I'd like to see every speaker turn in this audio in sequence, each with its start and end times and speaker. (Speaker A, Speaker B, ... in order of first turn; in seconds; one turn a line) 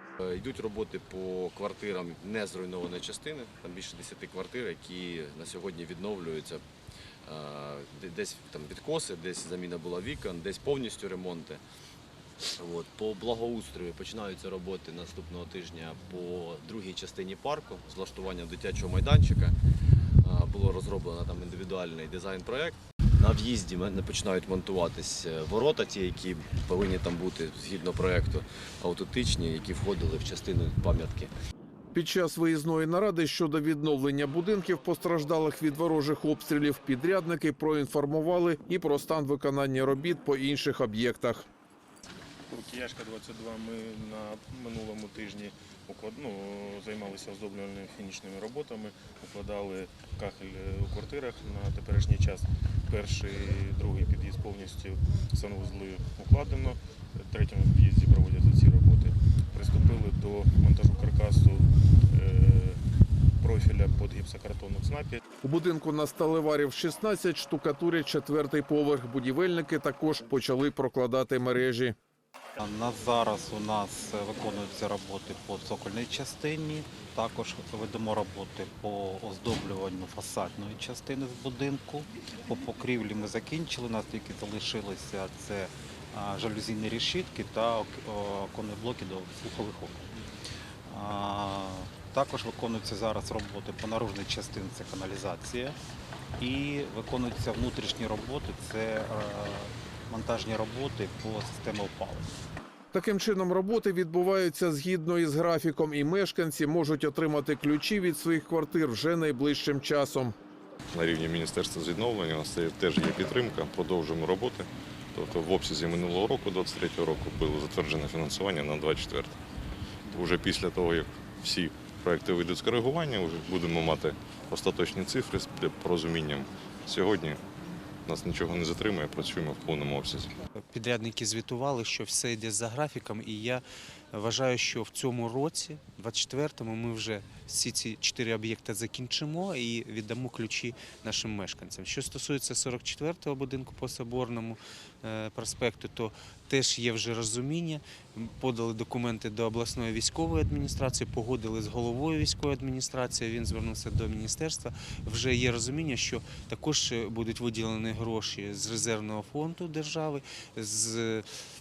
Speaker A: 0.2-6.6
Speaker A: 7.2-11.6
Speaker A: 12.6-19.6
Speaker A: 20.2-31.3
Speaker B: 31.9-41.5
Speaker C: 42.5-62.8
Speaker C: 63.4-65.2
Speaker B: 65.4-72.0
Speaker D: 72.6-90.2
Speaker D: 90.9-95.8
Speaker D: 96.4-102.3
Speaker B: 102.9-110.3
Speaker E: 110.9-119.4
Speaker E: 120.1-127.4
Speaker E: 128.1-130.3
Speaker F: 130.7-133.6
Speaker F: 134.1-161.3